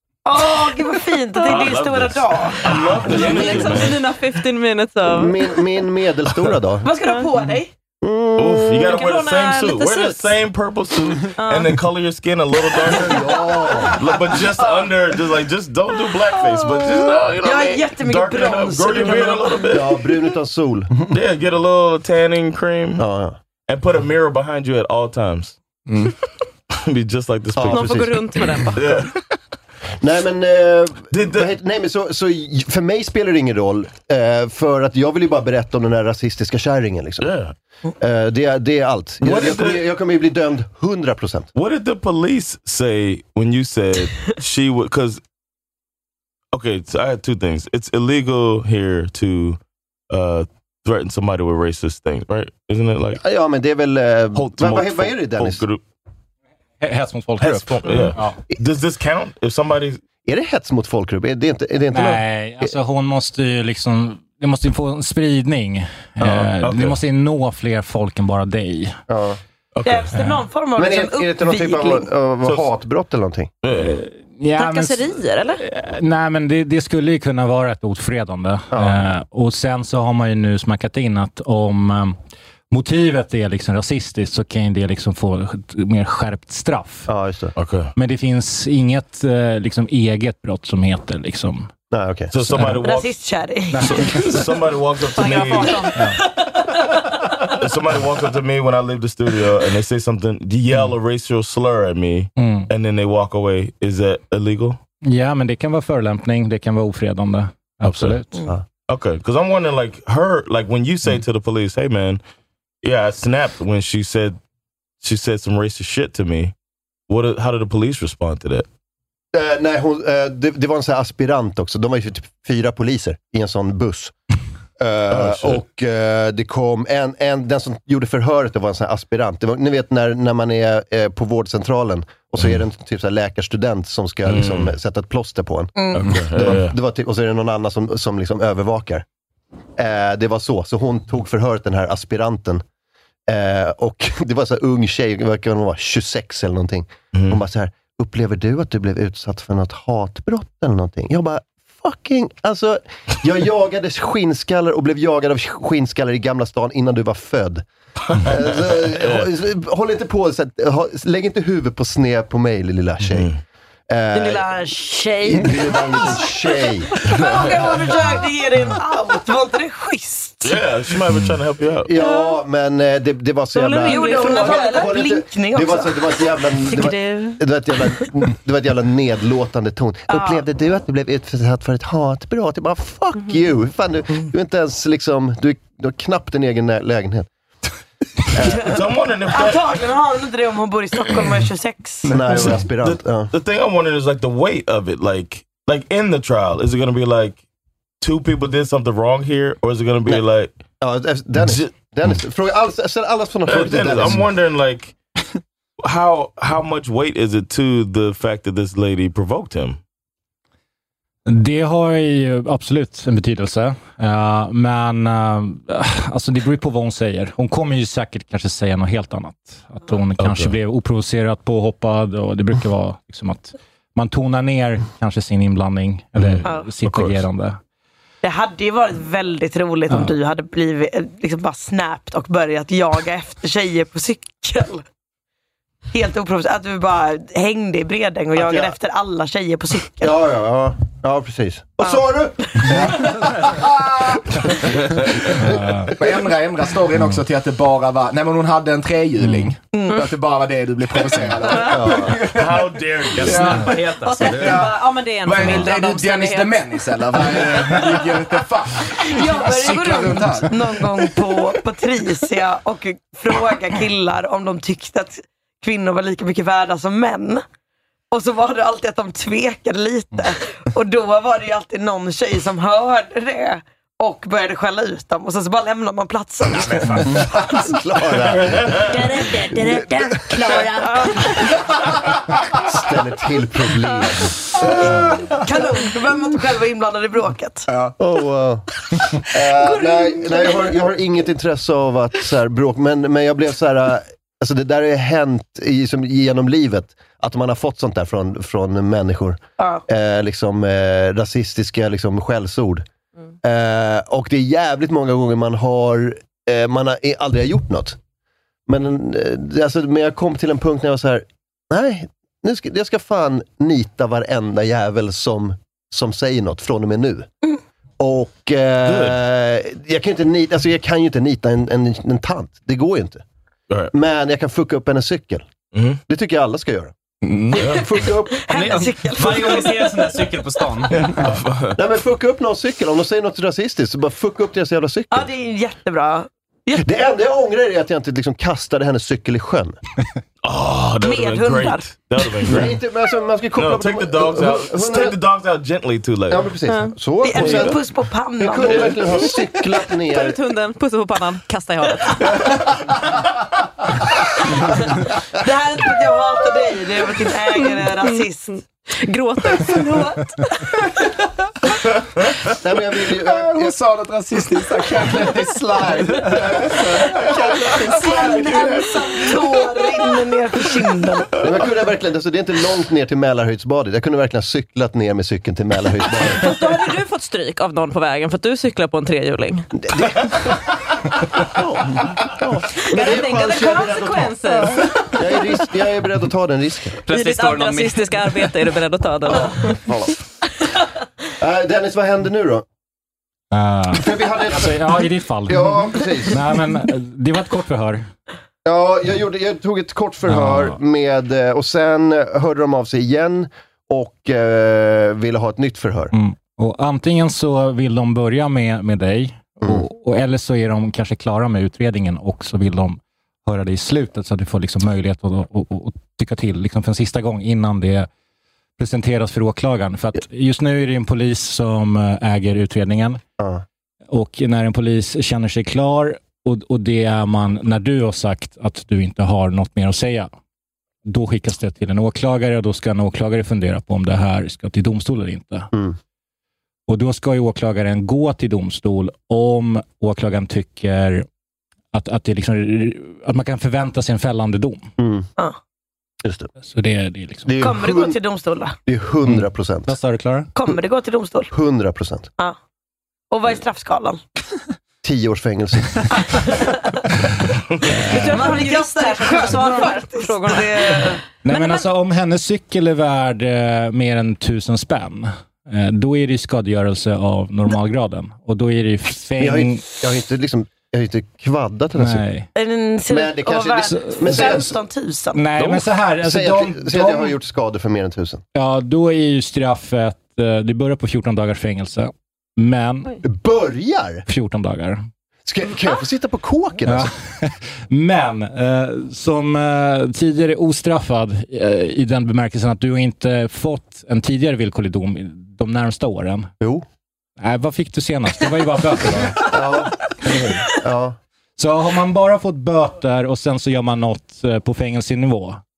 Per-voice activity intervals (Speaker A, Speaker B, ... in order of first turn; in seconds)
Speaker A: 0.3-3.7, 6.8-7.7, 14.6-14.9, 17.4-19.8, 69.8-72.1, 92.8-94.3, 95.2-96.1, 135.8-136.1, 164.1-170.6, 173.7-177.4, 180.1-180.4, 189.3-192.1, 226.4-226.7, 228.2-234.8, 235.9-240.2, 241.8-242.6, 249.7-250.0, 259.1-267.4, 268.1-277.2, 278.9-281.7, 284.6-287.7, 289.5-290.8, 328.3-330.1, 335.1-336.9, 341.0-342.3, 347.2-349.1, 355.4-358.6, 367.7-371.3, 447.6-448.8, 450.6-451.5, 453.3-454.2, 456.5-456.8, 458.1-461.2, 472.6-475.4
Speaker B: 1.4-4.0, 8.4-20.0, 21.1-23.0, 23.7-25.6, 26.7-28.1, 28.7-29.2, 31.1-31.5, 37.2-37.5, 39.2-39.8, 41.5-45.2, 46.5-53.2, 54.4-55.8, 57.4-60.0, 66.2-67.0, 69.8-70.2, 73.6-74.0, 87.6-87.9, 92.3-93.1, 93.8-95.9, 97.5-104.8, 107.8-108.2, 108.9-112.2, 112.8-114.4, 115.0-116.5, 117.1-118.7, 125.1-125.6, 134.3-134.7, 135.9-136.8, 147.1-147.4, 158.1-159.3, 163.1-163.4, 170.4-171.9, 188.5-189.6, 192.3-197.4, 198.0-200.5, 201.4-201.7, 203.5-204.9, 205.8-209.8, 220.2-220.5, 226.2-227.2, 244.9-245.5, 252.3-253.6, 278.5-278.9, 318.9-319.2, 325.7-326.0, 327.5-327.9, 330.9-331.7, 340.4-342.8, 343.6-346.5, 347.3-347.8, 348.6-349.3, 381.6-382.6
Speaker C: 2.7-5.4, 8.8-10.3, 11.4-11.8, 27.7-28.8, 74.6-75.6, 95.2-95.9, 172.0-172.3, 173.6-174.9, 254.0-256.7, 346.7-346.9, 350.1-352.4, 357.6-358.2, 359.0-360.3, 376.3-379.7, 382.9-385.1, 387.1-389.8, 458.0-461.9
Speaker D: 5.1-6.9, 8.0-9.0, 12.9-14.0, 19.7-21.0, 23.0-23.4, 27.6-28.2, 30.0-37.3, 38.0-41.5, 53.2-55.6, 60.2-62.7, 69.1-69.4, 70.8-73.5, 78.7-79.0, 87.1-87.5, 91.9-92.3, 119.3-124.1, 124.8-139.1, 139.8-142.6, 143.3-157.6, 158.2-163.3, 163.9-164.5, 165.2-166.9, 171.8-187.3, 188.3-188.7, 192.1-193.3, 200.8-204.3, 238.3-238.8, 240.0-243.2, 251.6-252.2, 277.1-280.6, 282.6-284.4, 288.0-288.6, 289.3-302.9, 303.4-308.0, 308.7-317.3, 318.0-323.2, 323.9-325.5, 326.1-326.9, 327.7-328.5, 331.7-335.3, 336.8-339.8, 342.5-345.2, 346.3-347.8, 348.4-350.4, 362.6-363.8, 366.2-366.8, 371.4-376.6, 380.0-380.3, 382.9-387.0, 391.4-392.6, 393.9-396.4, 398.6-406.1, 423.4-423.6, 445.0-445.3, 446.2-446.5, 447.5-448.2, 448.9-450.0, 451.5-452.3, 455.0-456.1, 469.4-472.2, 473.1-474.8, 476.2-478.4, 483.2-484.2, 485.5-487.1, 499.4-501.2
Speaker E: 25.9-26.1, 242.7-244.2, 245.9-261.2, 284.7-285.2, 327.2-327.7, 363.2-369.3
Speaker F: 56.8-58.4, 61.9-69.0, 73.8-82.2, 82.7-87.1, 88.0-91.7, 92.5-92.8, 93.7-94.4, 102.4-102.7, 105.0-108.3, 211.3-227.6, 229.9-230.1, 245.5-245.9, 249.2-249.5, 393.5-398.1, 400.3-400.8, 406.1-418.1, 418.8-423.2, 424.1-430.3, 431.1-435.7, 436.9-441.3, 441.9-444.9, 446.6-447.6, 449.2-450.5, 457.9-458.3, 461.4-469.8, 472.0-472.5, 473.9-474.6, 475.3-477.3, 478.5-483.2, 484.3-485.1, 486.9-496.5, 497.4-500.7, 501.6-505.6
Speaker G: 253.2-254.7, 328.5-331.2, 387.1-388.5